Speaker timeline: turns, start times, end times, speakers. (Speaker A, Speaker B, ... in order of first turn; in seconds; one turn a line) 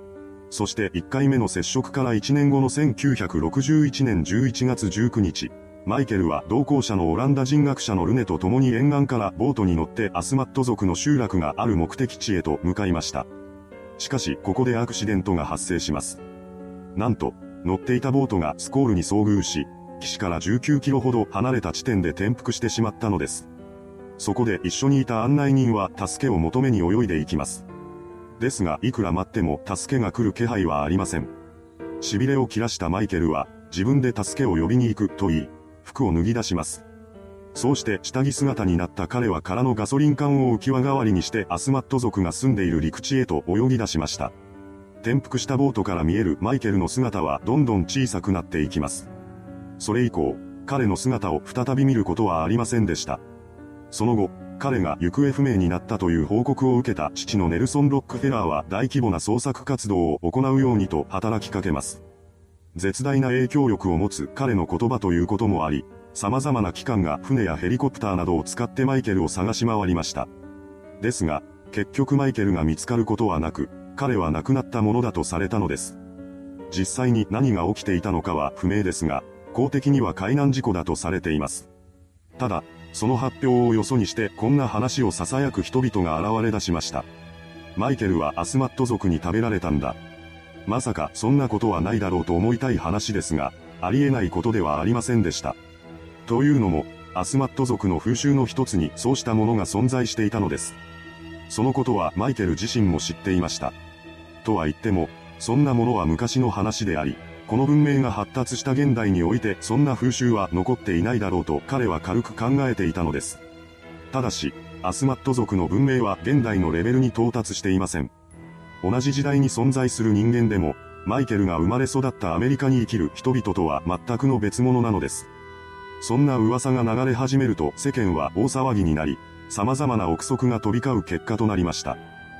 Speaker A: 0.5-13.3
Speaker A: 14.0-16.2
Speaker A: 16.9-23.5
Speaker A: 24.2-27.7
Speaker A: 28.4-31.3
Speaker A: 32.0-36.9
Speaker A: 37.5-44.3
Speaker A: 45.0-49.1
Speaker A: 49.8-53.2
Speaker A: 53.9-62.0
Speaker A: 62.7-70.3
Speaker A: 71.0-76.0
Speaker A: 76.7-81.7
Speaker A: 82.4-87.1
Speaker A: 87.8-90.0
Speaker A: 90.7-95.6
Speaker A: 96.2-100.8
Speaker A: 101.5-103.8
Speaker A: 104.4-113.4
Speaker A: 114.1-118.1
Speaker A: 118.8-125.3
Speaker A: 126.0-132.0